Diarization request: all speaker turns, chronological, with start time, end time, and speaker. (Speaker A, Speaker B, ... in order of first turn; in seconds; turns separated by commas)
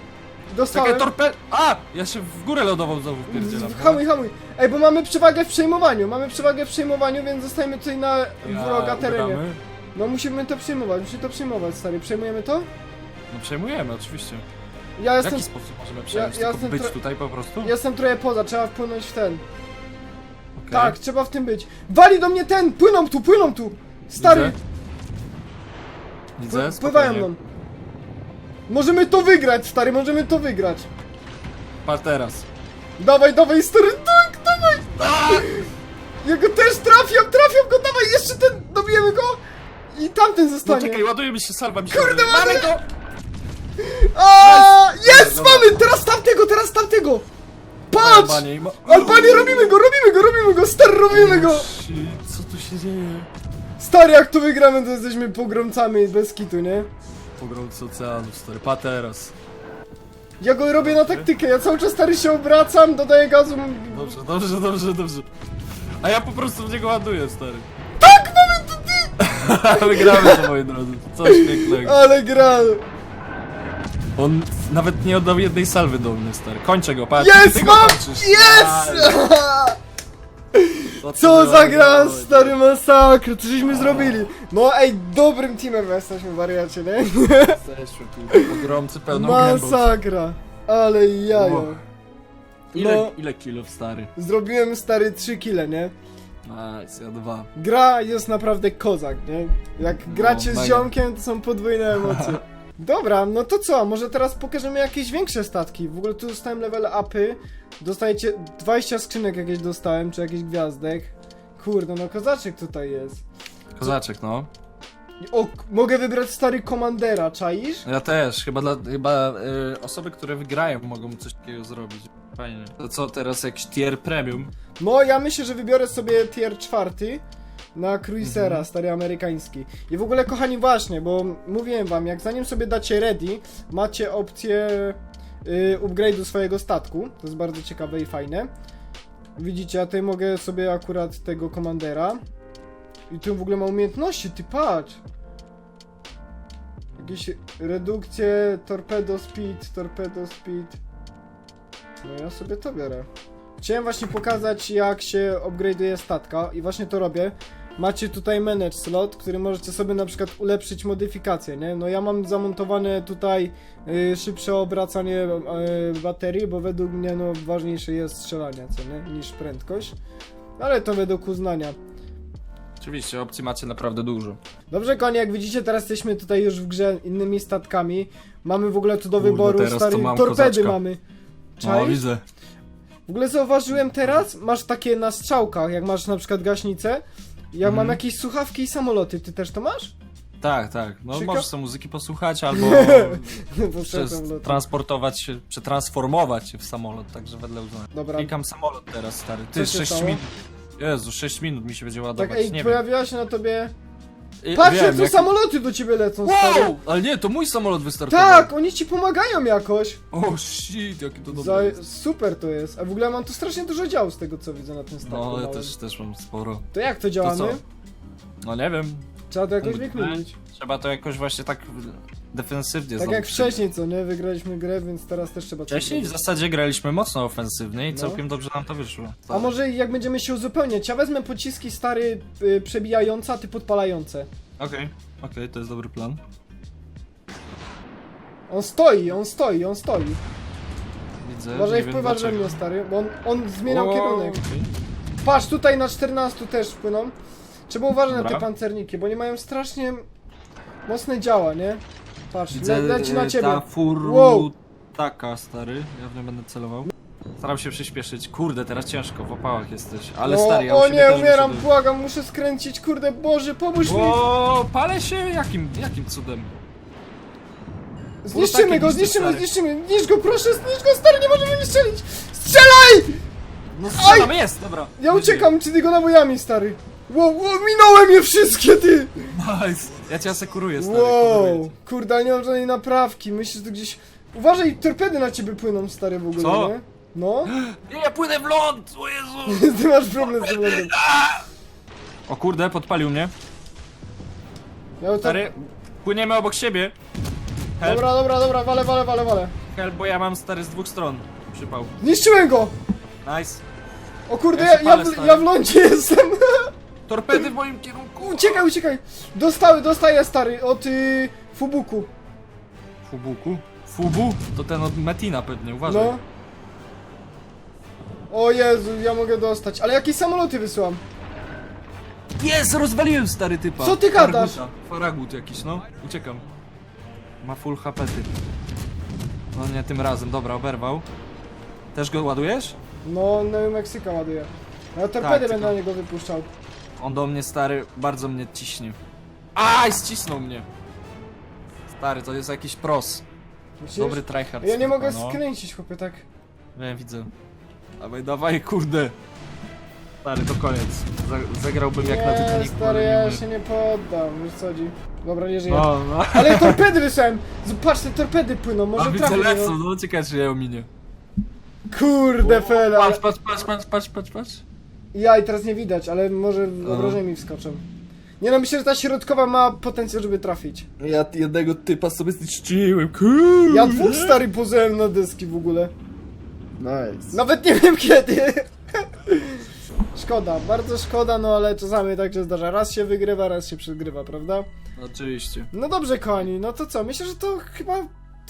Speaker A: 0.5-1.1, Speaker B: 0.7-4.0, Speaker A: 3.3-9.4, Speaker B: 8.4-9.6, Speaker A: 9.9-12.7, Speaker B: 13.3-14.4, Speaker A: 15.0-15.5, Speaker B: 15.2-17.7, Speaker A: 16.1-17.0, Speaker A: 17.6-19.4, Speaker B: 20.6-21.0, Speaker A: 20.7-24.6, Speaker B: 24.1-24.6, Speaker B: 26.4-27.3, Speaker A: 26.5-27.4, Speaker A: 28.7-30.9, Speaker B: 31.8-32.5, Speaker A: 33.0-35.7, Speaker B: 35.0-35.5, Speaker A: 36.2-39.4, Speaker A: 39.9-41.0, Speaker B: 40.6-42.8, Speaker A: 41.9-42.7, Speaker A: 43.8-47.2, Speaker B: 44.4-45.8, Speaker A: 47.9-51.6, Speaker B: 47.9-49.8, Speaker B: 51.1-53.3, Speaker A: 53.8-56.9, Speaker B: 57.4-59.3, Speaker A: 60.4-64.2, Speaker B: 60.8-61.3, Speaker B: 63.9-65.3, Speaker B: 66.0-67.7, Speaker A: 68.0-69.2, Speaker B: 69.2-72.0, Speaker A: 69.7-70.5, Speaker A: 71.2-72.8, Speaker B: 74.1-79.2, Speaker A: 77.2-79.8, Speaker A: 80.5-87.6, Speaker B: 81.0-82.6, Speaker B: 83.7-84.2, Speaker B: 87.5-89.9, Speaker A: 88.3-91.8, Speaker B: 91.3-91.8, Speaker A: 92.7-93.1, Speaker B: 92.7-94.1, Speaker A: 94.2-95.9, Speaker B: 96.4-97.5, Speaker A: 97.5-113.2, Speaker B: 100.0-100.9, Speaker B: 101.9-102.4, Speaker B: 113.8-114.5, Speaker A: 115.2-117.8, Speaker B: 117.8-124.5, Speaker A: 124.8-127.2, Speaker A: 127.7-138.5, Speaker B: 128.2-128.7, Speaker A: 139.4-142.2, Speaker A: 143.1-145.0, Speaker A: 146.9-150.8, Speaker A: 152.0-153.1, Speaker A: 153.6-169.9, Speaker A: 170.6-171.8, Speaker B: 172.8-174.4, Speaker A: 174.7-181.0, Speaker B: 179.2-180.8, Speaker A: 181.6-182.0, Speaker B: 181.6-182.2, Speaker A: 183.1-189.9, Speaker B: 183.7-184.2, Speaker B: 187.6-188.0, Speaker B: 190.4-202.8, Speaker A: 191.1-191.5, Speaker A: 192.5-194.6, Speaker A: 197.9-198.3, Speaker A: 199.5-200.2, Speaker A: 202.2-203.7, Speaker B: 204.4-205.3, Speaker A: 204.5-206.8, Speaker B: 206.2-208.5, Speaker A: 208.1-210.0, Speaker B: 210.1-211.8, Speaker A: 211.3-215.7, Speaker B: 215.0-216.6, Speaker A: 216.7-217.6, Speaker B: 217.2-217.6, Speaker B: 218.4-219.1, Speaker A: 219.3-220.3, Speaker B: 219.6-223.6, Speaker A: 223.0-226.2, Speaker B: 225.7-229.5, Speaker A: 227.9-228.2, Speaker A: 229.3-234.3, Speaker B: 234.6-236.2, Speaker A: 238.5-240.2, Speaker B: 241.2-242.6, Speaker A: 241.5-244.4, Speaker B: 243.6-244.7, Speaker A: 245.2-247.1, Speaker A: 247.7-250.1, Speaker B: 248.1-248.5, Speaker A: 250.8-254.5, Speaker B: 252.5-261.7, Speaker A: 260.2-264.2, Speaker B: 263.8-266.5, Speaker A: 268.2-273.2, Speaker B: 268.3-269.4, Speaker B: 273.8-275.5, Speaker A: 273.9-274.3, Speaker A: 275.0-279.3, Speaker B: 279.3-281.7, Speaker A: 280.8-287.5, Speaker B: 286.4-286.7, Speaker B: 287.4-291.4, Speaker A: 289.4-291.0, Speaker B: 292.3-293.3, Speaker A: 295.0-295.5, Speaker B: 295.2-296.9, Speaker B: 297.8-298.1, Speaker A: 297.8-299.5, Speaker B: 299.7-301.9, Speaker A: 302.0-302.7, Speaker B: 303.2-303.6, Speaker A: 304.3-306.7, Speaker B: 304.5-305.5, Speaker B: 307.1-308.7, Speaker A: 308.2-312.1, Speaker B: 313.0-316.2, Speaker A: 315.9-316.2, Speaker A: 318.3-321.0, Speaker B: 322.4-326.4, Speaker A: 323.8-324.6, Speaker B: 327.4-328.3, Speaker B: 329.5-331.1, Speaker B: 331.9-332.8, Speaker A: 333.0-336.5, Speaker B: 335.2-335.8, Speaker B: 337.0-339.0, Speaker B: 339.5-340.7, Speaker B: 341.9-343.2, Speaker A: 343.8-346.2, Speaker B: 343.9-345.4, Speaker B: 346.7-347.3, Speaker B: 348.0-349.1, Speaker B: 350.2-353.4, Speaker A: 352.0-359.8, Speaker B: 355.7-356.8, Speaker B: 358.9-360.9, Speaker A: 361.9-363.2, Speaker B: 362.4-364.6, Speaker A: 365.1-367.8, Speaker B: 366.8-367.2, Speaker A: 368.4-370.9, Speaker B: 371.0-374.4, Speaker A: 373.7-375.9, Speaker B: 376.8-377.4, Speaker A: 377.3-384.7, Speaker B: 385.0-385.7, Speaker A: 385.7-388.1